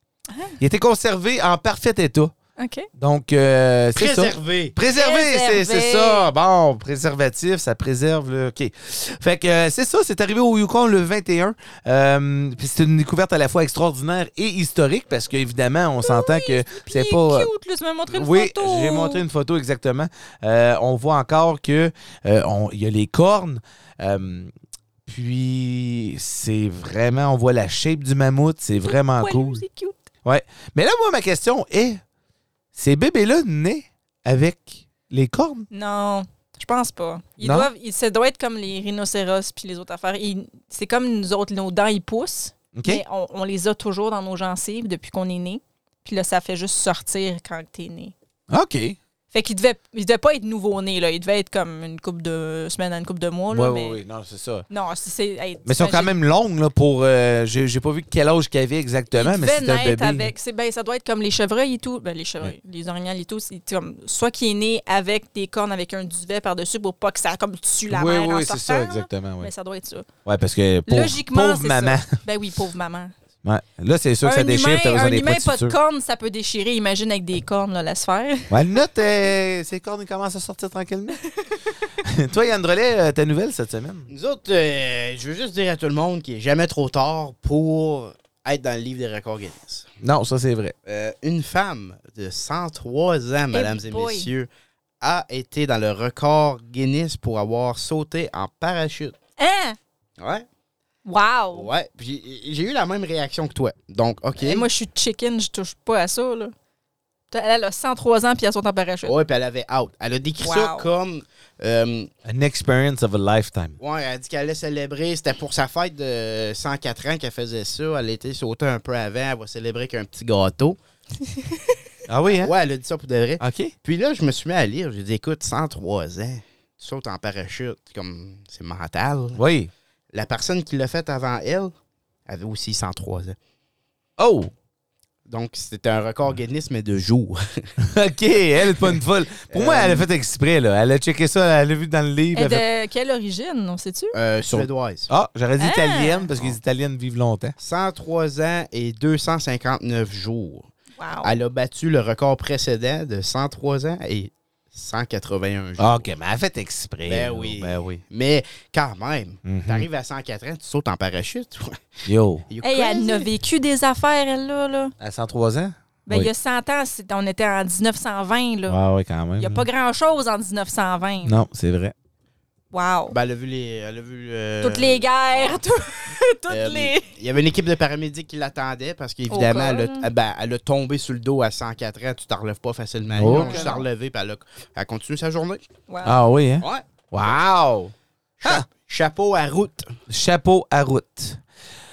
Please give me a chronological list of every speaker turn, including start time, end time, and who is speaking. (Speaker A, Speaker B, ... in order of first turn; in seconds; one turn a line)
Speaker A: 0.3-0.6
Speaker B: 0.6-2.3
Speaker A: 2.6-2.9
Speaker B: 3.0-17.5
Speaker C: 4.0-4.8
Speaker A: 4.9-6.3
Speaker A: 16.0-19.2
Speaker B: 18.1-24.5
Speaker B: 25.1-29.6
Speaker A: 28.8-30.0
Speaker B: 30.2-32.0
Speaker B: 32.7-35.7
Speaker A: 35.7-48.1
Speaker B: 37.4-37.7
Speaker B: 42.7-43.0
Speaker B: 48.5-49.0
Speaker A: 49.3-54.0
Speaker B: 53.5-54.6
Speaker A: 54.7-56.1
Speaker B: 55.6-60.3
Speaker A: 59.1-70.1
Speaker B: 67.9-69.5
Speaker B: 70.2-72.2
Speaker A: 70.9-73.1
Speaker B: 73.4-75.8
Speaker A: 74.2-78.5
Speaker B: 78.5-81.2
Speaker B: 82.0-84.1
Speaker C: 84.1-89.9
Speaker B: 90.0-90.8
Speaker C: 90.9-94.5
Speaker A: 93.5-94.3
Speaker C: 95.0-99.2
Speaker A: 99.4-99.8
Speaker C: 100.2-100.5
Speaker A: 101.1-101.7
Speaker C: 101.5-104.7
Speaker A: 104.4-106.5
Speaker A: 107.3-109.2
Speaker C: 109.1-112.1
Speaker A: 110.4-110.9
Speaker B: 112.3-113.8
Speaker C: 113.8-120.8
Speaker A: 121.4-121.7
Speaker B: 122.1-122.5
Speaker C: 122.3-129.4
Speaker B: 123.4-123.7
Speaker B: 129.3-129.7
Speaker C: 130.1-131.7
Speaker C: 132.3-133.4
Speaker B: 134.2-134.5
Speaker C: 135.3-137.7
Speaker B: 137.8-142.6
Speaker C: 139.5-140.1
Speaker A: 142.3-144.2
Speaker C: 144.1-145.1
Speaker B: 144.5-147.6
Speaker A: 145.6-146.3
Speaker C: 147.6-150.7
Speaker A: 151.0-151.3
Speaker C: 151.2-156.1
Speaker B: 155.8-158.0
Speaker C: 157.1-161.8
Speaker B: 159.4-159.9
Speaker B: 162.1-162.5
Speaker C: 162.5-163.3
Speaker A: 162.6-164.9
Speaker B: 165.0-166.3
Speaker A: 166.1-168.8
Speaker B: 168.7-169.7
Speaker A: 169.4-171.4
Speaker B: 171.2-171.9
Speaker A: 172.7-173.2
Speaker C: 173.1-175.6
Speaker A: 174.6-177.1
Speaker C: 176.5-185.7
Speaker A: 179.3-180.1
Speaker B: 183.2-183.8
Speaker A: 183.2-183.8
Speaker A: 185.9-186.2
Speaker B: 186.0-188.7
Speaker C: 186.6-186.9
Speaker C: 188.4-189.9
Speaker B: 190.1-191.4